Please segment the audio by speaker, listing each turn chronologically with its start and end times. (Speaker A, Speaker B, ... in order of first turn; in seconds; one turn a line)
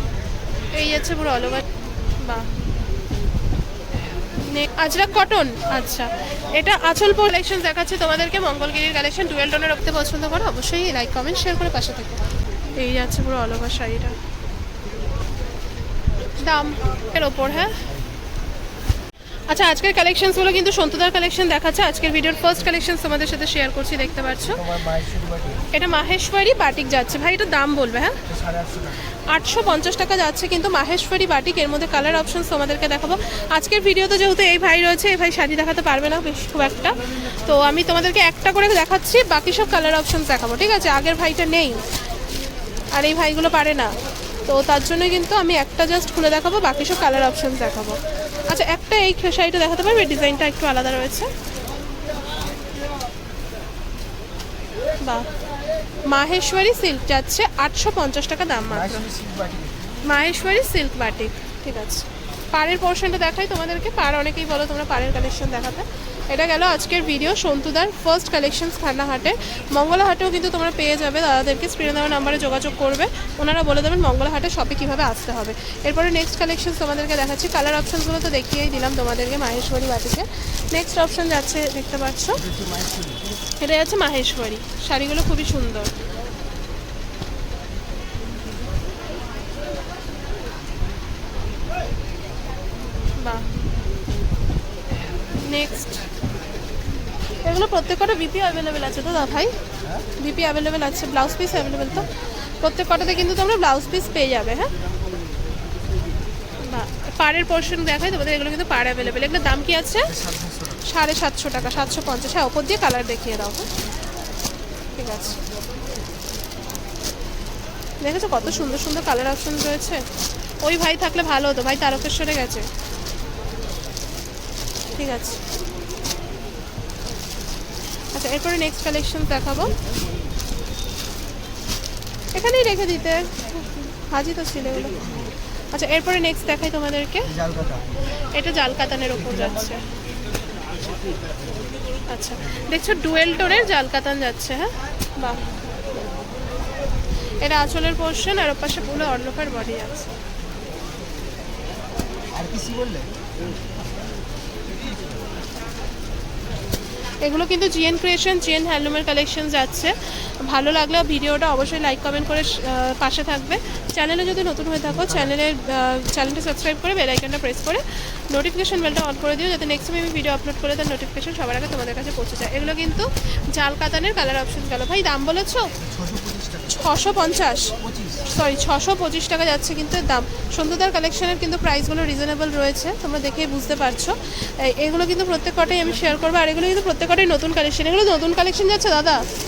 Speaker A: 0.7-1.6
Speaker A: 2.2-2.5
Speaker A: 4.4-14.2
Speaker A: 16.4-17.8
Speaker A: 19.5-24.6
Speaker B: 24.4-25.6
Speaker A: 25.7-28.2
Speaker B: 28.3-29.1
Speaker A: 29.3-41.8
Speaker A: 42.9-43.9
Speaker A: 44.5-51.3
Speaker A: 55.0-55.3
Speaker A: 56.1-59.0
Speaker B: 58.7-60.0
Speaker A: 60.0-82.4
Speaker B: 82.3-83.3
Speaker A: 83.6-85.9
Speaker A: 93.2-93.5
Speaker A: 95.3-96.1
Speaker A: 97.4-99.5
Speaker A: 100.2-104.8
Speaker A: 106.6-110.2
Speaker B: 110.1-110.8
Speaker A: 110.8-113.7
Speaker A: 115.0-115.4
Speaker A: 118.0-120.1
Speaker A: 120.6-122.7
Speaker A: 124.9-125.4
Speaker A: 128.1-129.8
Speaker A: 132.3-133.5
Speaker A: 134.1-135.1
Speaker A: 135.7-137.3
Speaker B: 137.2-137.8
Speaker A: 138.2-139.8
Speaker B: 139.3-139.8
Speaker A: 142.1-145.4
Speaker A: 147.4-150.1
Speaker B: 152.3-153.1
Speaker A: 157.2-175.7
Speaker B: 175.8-176.8
Speaker A: 176.7-177.8
Speaker B: 177.8-178.3
Speaker A: 178.3-189.2